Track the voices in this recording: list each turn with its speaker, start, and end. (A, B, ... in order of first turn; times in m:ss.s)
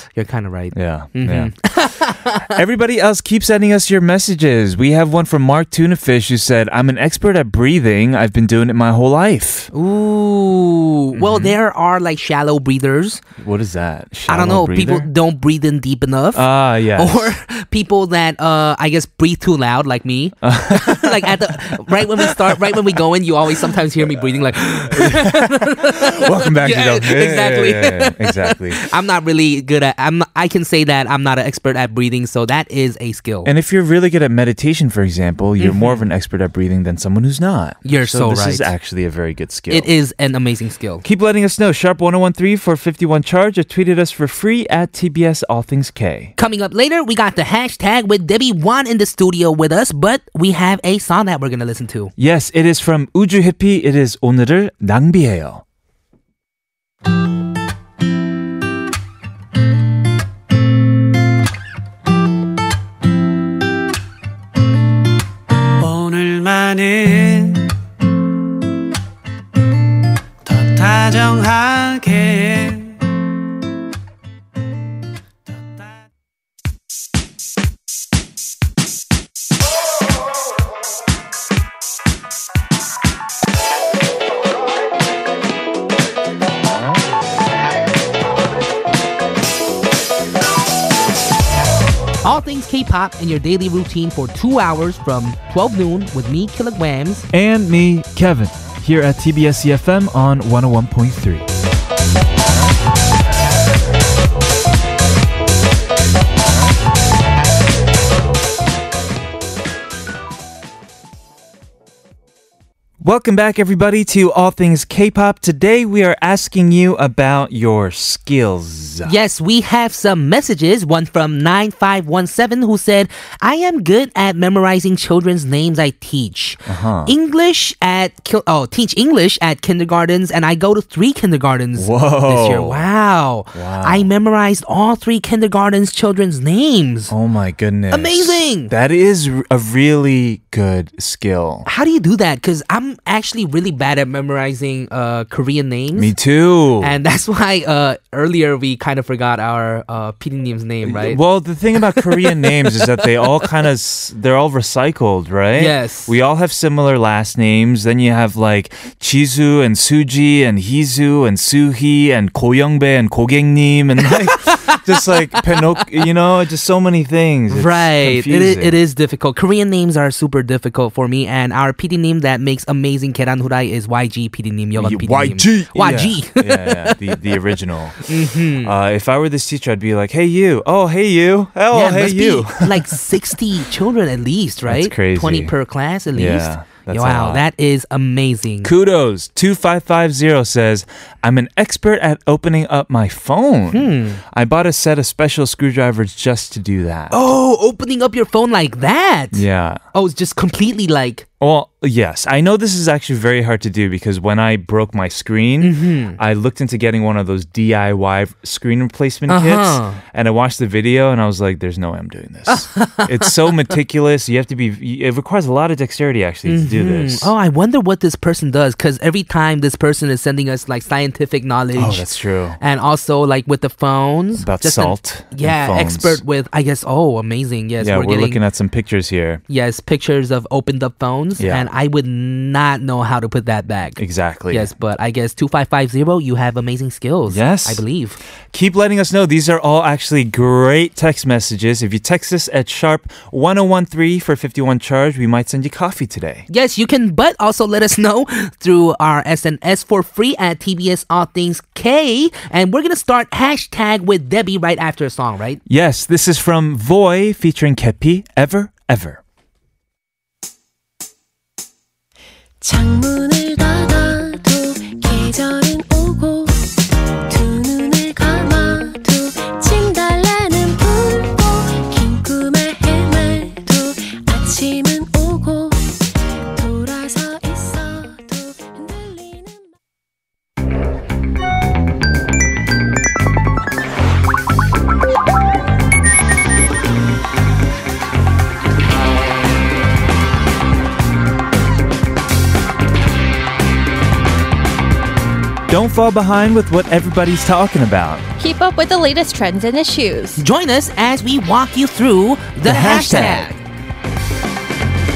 0:00.1-0:02.6 A
0:00.7-0:01.7 B
0:02.5-0:09.7 B
0:09.7-0:13.2 A
0:11.1-0:11.6 B
0:13.4-0:15.1 B
0:14.3-0:33.5 A
0:16.3-0:17.4 B
0:20.4-0:22.8 B
0:24.0-0:28.8 B
0:33.4-0:39.9 B
0:35.6-0:36.0 A
0:37.8-0:38.7 A
0:39.7-0:41.0 A
0:41.0-0:46.3 B
0:46.4-0:52.1 A
0:52.2-0:55.6 B
1:05.8-1:07.7 C
1:10.4-1:13.0 C
1:32.2-1:37.3 A
1:37.3-1:41.5 B
1:53.0-1:59.2 B
1:59.0-2:17.1 A
2:06.7-2:07.1 B
2:11.7-2:12.8 B
2:13.5-2:14.1 B
2:17.1-2:21.7 B
2:17.9-2:18.7 A
2:21.6-2:26.1 A
2:25.9-2:26.9 B
2:26.8-2:31.2 A
2:30.8-2:48.8 B
2:31.8-2:33.5 A
2:35.6-2:36.1 A
2:44.3-2:44.8 A
2:47.5-2:57.4 A
2:54.8-3:03.2 B
2:58.0-2:58.7 A
3:01.7-3:08.7 A
3:04.7-3:05.5 B
3:06.1-3:07.4 B
3:08.6-3:17.2 B
3:13.7-3:14.2 A
3:17.1-3:19.4 A
3:19.3-3:19.8 B
3:19.9-3:21.2 A
3:21.4-3:37.3 B
3:25.6-3:26.2 A
3:29.3-3:30.0 A
3:32.5-3:33.3 A
3:36.4-3:42.0 A
3:41.7-3:42.6 B
3:42.6-3:48.4 A
3:44.4-3:46.2 B
3:47.8-3:49.4 B
3:49.5-3:58.2 A
3:51.4-3:51.7 B
3:54.0-3:54.7 B
3:57.3-3:57.8 B
3:58.5-4:06.4 B
4:06.5-4:15.6 A
4:15.7-4:19.2 B
4:22.6-4:26.6 D
4:27.3-4:36.0 D
4:36.5-4:39.7 D
4:55.7-4:58.2 B
4:58.4-5:00.4 E
5:00.4-5:03.5 A
5:02.6-5:03.5 B
5:02.8-5:03.5 E